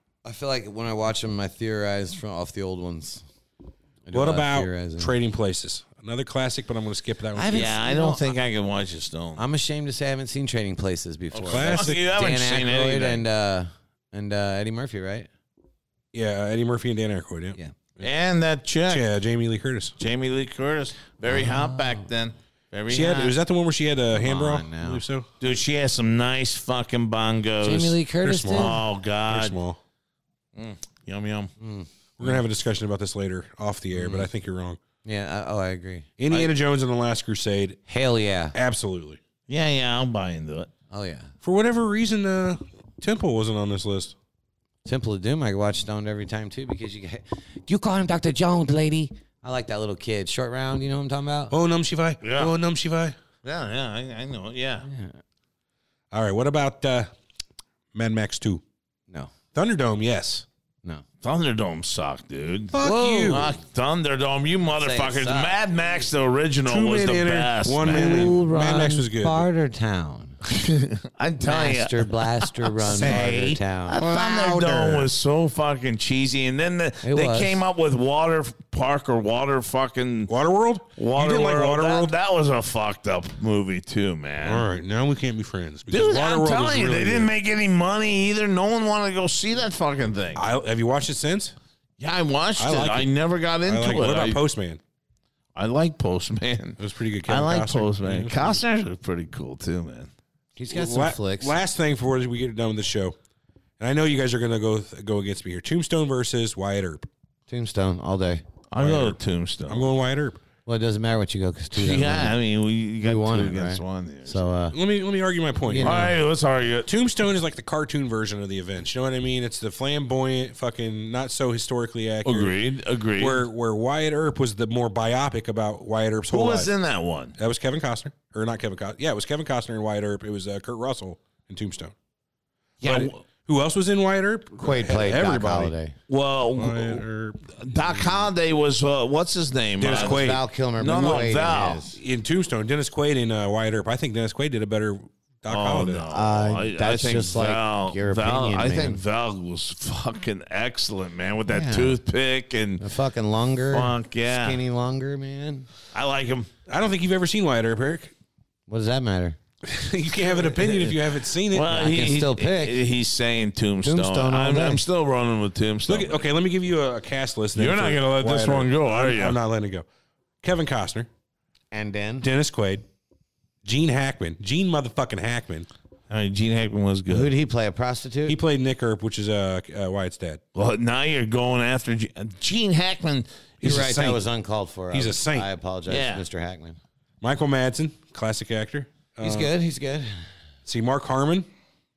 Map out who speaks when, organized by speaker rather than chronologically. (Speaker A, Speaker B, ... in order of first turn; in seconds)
Speaker A: 0.2-3.2, 4.1-5.1, 7.4-8.3, 9.4-15.3, 21.3-22.1, 24.1-25.0, 27.6-28.8, 31.6-31.9, 34.0-34.3, 35.0-36.1, 37.9-38.5, 40.9-41.3, 44.9-51.5, 54.8-55.2, 62.8-63.5, 64.8-65.7, 67.9-70.4, 71.4-74.0, 77.0-77.6, 100.6-101.5, 107.5-108.5, 110.7-112.4, 113.0-114.8, 115.7-116.2, 134.6-135.9, 139.8-142.0, 146.1-149.0, 151.5-152.0, 152.8-155.7, 158.7-159.4, 161.7-162.8, 163.8-164.8, 171.7-172.3, 177.1-178.4, 183.6-186.8, 189.2-190.3
Speaker B: 4.1-7.8, 11.4-12.0, 16.1-18.1, 18.9-20.0, 22.9-25.3, 28.2-29.8, 32.2-34.8, 36.2-37.8, 38.5-39.2, 41.4-44.1, 51.5-53.2, 56.1-57.1, 57.9-58.6, 59.5-60.5, 62.7-63.5, 66.7-69.5, 72.9-75.1, 80.3-82.1, 84.4-87.3, 90.3-91.6, 92.6-93.1, 93.6-94.8, 96.8-98.6, 100.7-103.2, 103.8-107.1, 108.8-110.4, 114.7-116.1, 116.8-122.6, 123.2-126.7, 127.4-131.9, 132.8-135.7, 136.5-138.2, 139.8-140.4, 141.9-146.1, 156.7-158.1, 159.6-161.9, 165.9-169.9, 170.4-171.1, 172.2-172.8, 173.7-175.7, 178.3-180.4, 183.6-184.2, 184.9-185.5, 187.2-189.5, 190.7-191.5
Speaker C: 7.5-9.4, 11.3-13.2, 18.0-19.1, 20.0-23.4, 25.4-28.0, 28.6-29.6, 30.6-31.5, 39.5-40.7, 52.2-52.5, 53.4-54.9, 61.2-68.8, 70.5-80.3, 81.0-84.7, 85.9-90.5, 92.0-94.4, 95.5-100.1, 108.7-109.9, 111.8-114.5, 115.8-116.9, 122.2-123.5, 126.3-127.3, 132.8-133.1, 136.1-137.0, 137.6-140.2, 140.8-141.8, 145.5-152.8, 153.7-154.6, 155.9-156.5, 160.3-166.2, 167.6-169.4, 176.1-177.3, 180.6-184.0, 185.9-186.2